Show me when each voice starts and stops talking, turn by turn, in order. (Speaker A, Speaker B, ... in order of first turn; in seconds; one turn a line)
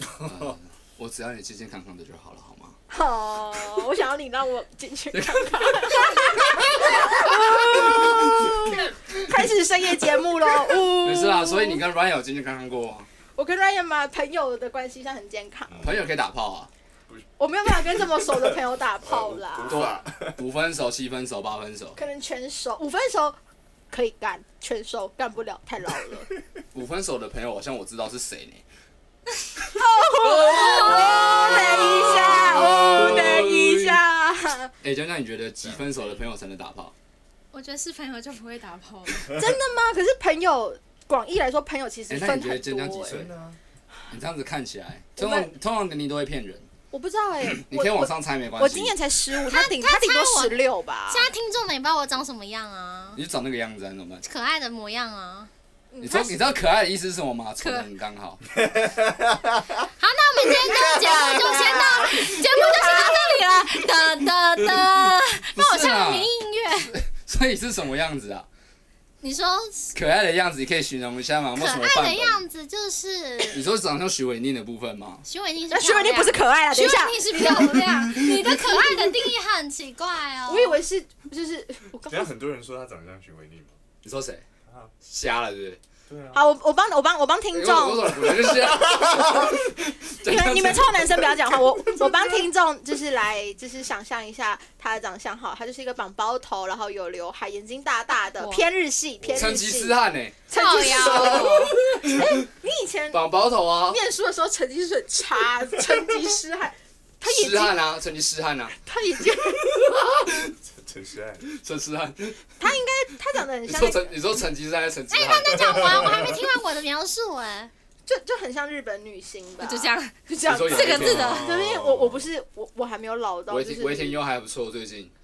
Speaker A: 0.2-0.5
Speaker B: 0.2-2.8
Speaker C: 2.9-11.8
Speaker B: 5.1-8.8
Speaker B: 10.9-13.1
Speaker C: 13.3-15.8
Speaker A: 15.7-16.0
Speaker B: 15.8-16.7
Speaker A: 17.1-20.4
Speaker C: 17.4-19.9
Speaker B: 19.7-22.0
Speaker C: 22.0-23.4
Speaker C: 23.9-26.3
Speaker B: 26.7-28.6
Speaker C: 29.7-34.7
Speaker B: 30.2-34.0
Speaker D: 30.2-32.9
Speaker B: 34.8-36.9
Speaker D: 37.5-39.4
Speaker C: 39.3-43.2
Speaker B: 42.1-43.3
Speaker A: 43.1-43.6
Speaker B: 44.1-46.7
Speaker C: 45.2-45.5
Speaker C: 46.9-51.3
Speaker B: 47.5-48.9
Speaker D: 49.5-53.2
Speaker B: 53.1-54.2
Speaker D: 54.2-55.5
Speaker C: 55.9-56.5
Speaker B: 56.0-58.4
Speaker D: 57.6-57.9
Speaker A: 58.6-59.8
Speaker D: 60.0-66.9
Speaker A: 60.5-62.2
Speaker C: 60.7-63.3
Speaker B: 64.6-68.5
Speaker D: 69.2-69.9
Speaker B: 69.9-72.4
Speaker D: 71.5-73.6
Speaker B: 73.5-75.2
Speaker D: 75.2-80.8
Speaker C: 75.7-77.9
Speaker A: 77.9-78.3
Speaker C: 78.5-79.0
Speaker C: 80.5-82.3
Speaker A: 82.1-83.7
Speaker B: 84.0-84.4
Speaker A: 84.7-84.9
Speaker B: 85.0-85.8
Speaker A: 86.1-86.4
Speaker C: 86.3-88.3
Speaker B: 87.5-91.2
Speaker A: 88.6-89.1
Speaker C: 90.2-100.0
Speaker D: 98.4-98.7
Speaker A: 99.2-99.6
Speaker B: 99.3-100.4
Speaker C: 100.5-103.2
Speaker D: 100.5-101.8
Speaker A: 100.8-101.8
Speaker B: 103.1-104.0
Speaker C: 103.9-107.8
Speaker B: 107.2-108.8
Speaker C: 108.8-109.7
Speaker A: 109.9-111.4
Speaker B: 110.0-110.3
Speaker B: 111.5-112.5
Speaker C: 112.6-114.1
Speaker B: 113.7-116.3
Speaker D: 115.1-117.7
Speaker A: 115.5-116.4
Speaker C: 118.0-124.2
Speaker D: 119.6-121.5
Speaker B: 120.5-121.4
Speaker A: 121.0-122.2
Speaker B: 123.5-125.1